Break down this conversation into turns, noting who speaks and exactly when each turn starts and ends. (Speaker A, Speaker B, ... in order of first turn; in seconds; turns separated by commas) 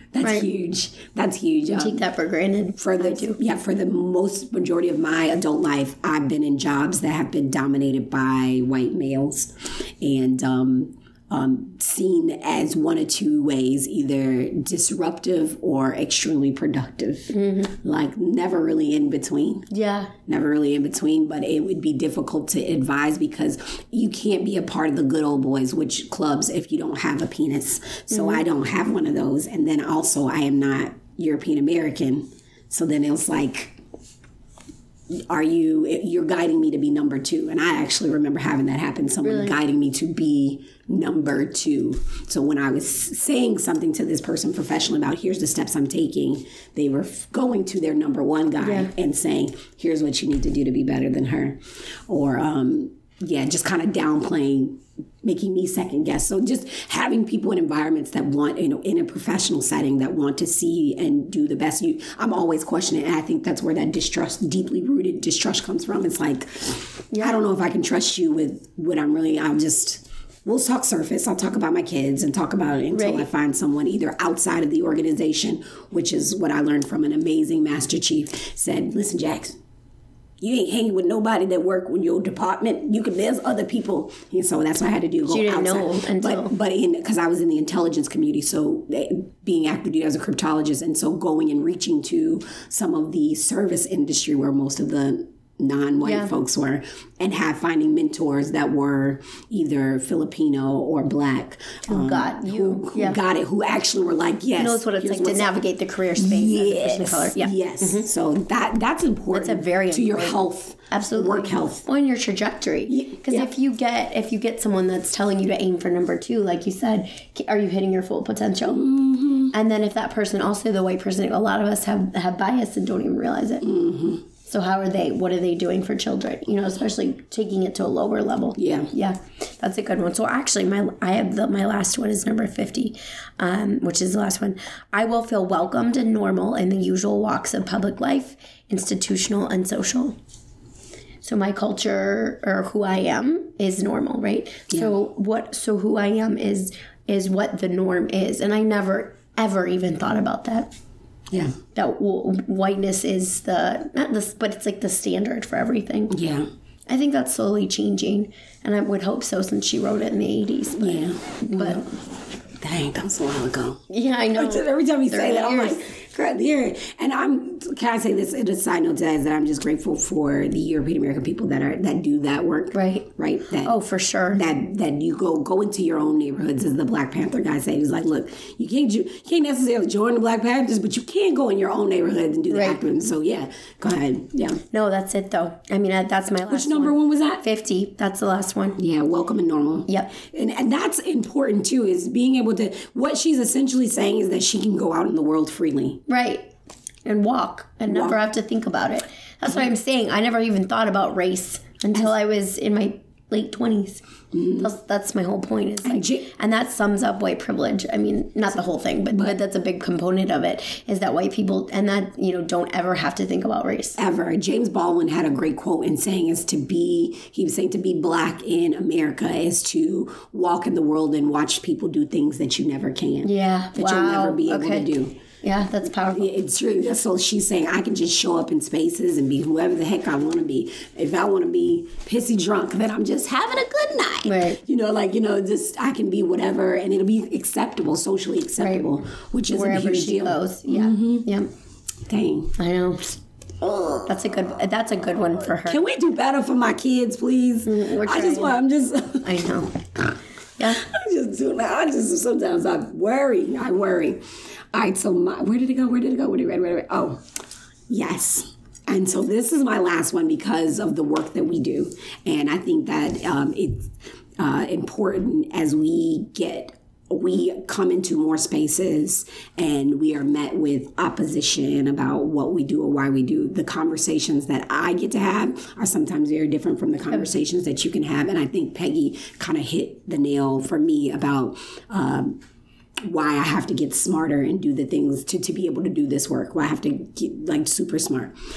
Speaker A: 0.1-2.0, Speaker B: 0.2-0.5, Speaker B: 1.7-3.4, Speaker A: 2.8-19.7, Speaker B: 17.3-17.7, Speaker B: 19.7-20.1, Speaker A: 20.2-33.8, Speaker B: 28.1-28.4, Speaker A: 35.1-79.6, Speaker B: 39.2-39.6, Speaker B: 48.6-48.9, Speaker B: 67.1-67.4, Speaker B: 72.9-73.3, Speaker A: 80.4-105.6, Speaker B: 85.3-86.5, Speaker B: 96.0-96.3, Speaker B: 101.9-103.2, Speaker B: 104.6-108.1, Speaker A: 106.2-111.8, Speaker B: 109.3-118.9, Speaker A: 112.9-113.5, Speaker A: 118.7-119.5, Speaker B: 119.5-123.7, Speaker A: 123.6-124.2, Speaker B: 124.5-140.2, Speaker A: 128.6-128.9, Speaker B: 141.2-150.7, Speaker A: 151.3-151.6, Speaker B: 151.7-156.2, Speaker A: 156.1-156.5, Speaker B: 156.9-161.8, Speaker A: 160.8-161.9, Speaker A: 162.6-163.8, Speaker B: 163.9-165.8, Speaker A: 164.3-173.8, Speaker B: 172.7-173.1, Speaker B: 173.6-174.4, Speaker A: 174.3-184.6, Speaker B: 182.5-182.8, Speaker B: 184.7-188.8, Speaker A: 186.5-187.4, Speaker A: 188.8-196.0, Speaker B: 189.9-190.1, Speaker B: 196.1-196.5, Speaker B: 197.0-204.0, Speaker A: 197.9-198.2, Speaker A: 204.3-204.7, Speaker B: 204.5-214.0, Speaker A: 205.8-206.3, Speaker A: 209.1-209.4, Speaker A: 214.0-225.2, Speaker B: 223.2-224.9, Speaker B: 225.4-226.3, Speaker A: 226.1-241.3, Speaker B: 234.2-234.6, Speaker B: 238.6-238.9, Speaker B: 239.5-241.5, Speaker A: 242.1-242.6, Speaker B: 242.6-243.2, Speaker A: 243.6-244.1, Speaker B: 244.1-245.8, Speaker A: 245.6-249.4, Speaker B: 247.7-248.6, Speaker B: 249.2-249.7, Speaker B: 250.6-250.8, Speaker A: 250.7-257.2, Speaker A: 257.9-282.4, Speaker A: 283.0-288.3